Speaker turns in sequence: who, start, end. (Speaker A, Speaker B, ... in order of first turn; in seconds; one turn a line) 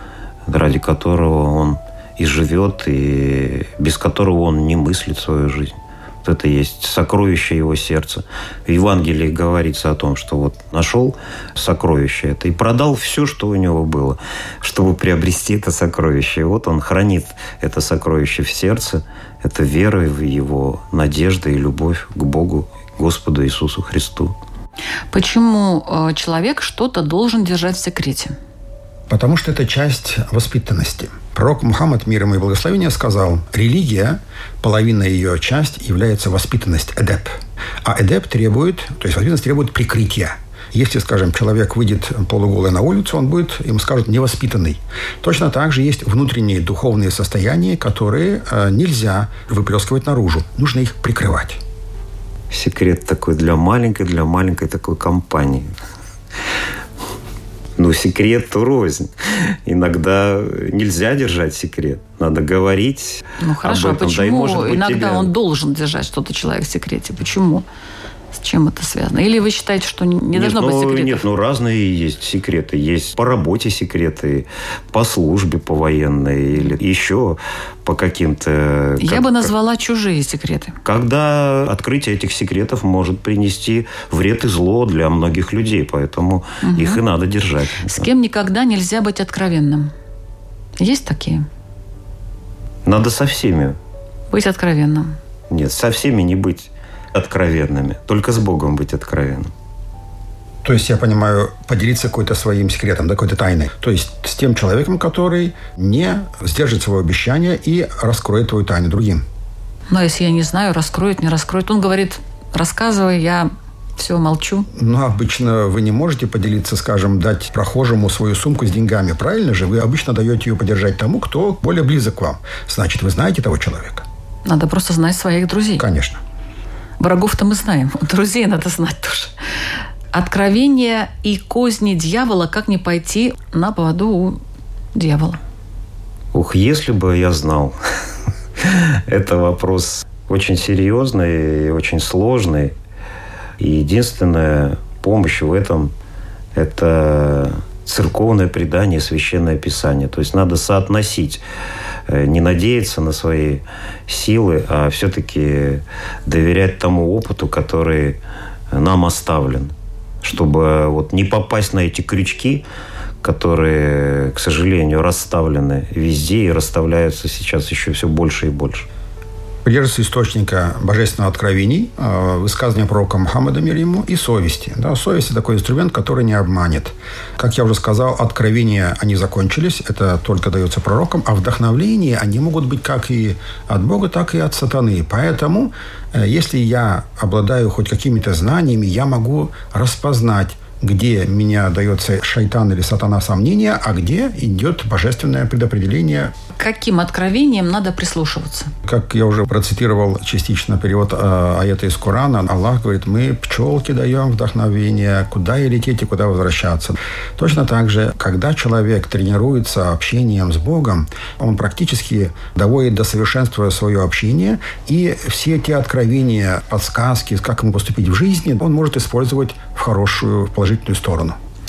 Speaker A: 0.5-24.4
Speaker B: 25.1-28.4
Speaker C: 29.1-51.6
Speaker A: 52.5-55.7
Speaker A: 57.8-65.3
Speaker B: 63.4-67.6
Speaker B: 68.3-71.2
Speaker A: 70.3-79.5
Speaker B: 79.0-80.8
Speaker A: 80.8-88.1
Speaker B: 86.6-87.0
Speaker B: 87.8-89.9
Speaker B: 90.8-91.5
Speaker A: 92.8-93.8
Speaker B: 94.3-95.2
Speaker A: 95.5-99.5
Speaker C: 100.6-109.2
Speaker B: 109.9-114.7
Speaker C: 114.7-124.0
Speaker B: 124.5-125.8
Speaker C: 125.8-126.2
Speaker B: 127.0-129.3
Speaker B: 130.1-134.4
Speaker B: 134.9-135.4
Speaker A: 136.3-137.8
Speaker A: 138.6-142.7
Speaker A: 143.6-145.9
Speaker A: 146.5-151.4
Speaker A: 152.1-158.2
Speaker A: 158.7-162.6
Speaker A: 163.2-168.9
Speaker C: 169.6-196.3
Speaker B: 196.5-198.7
Speaker C: 198.8-221.4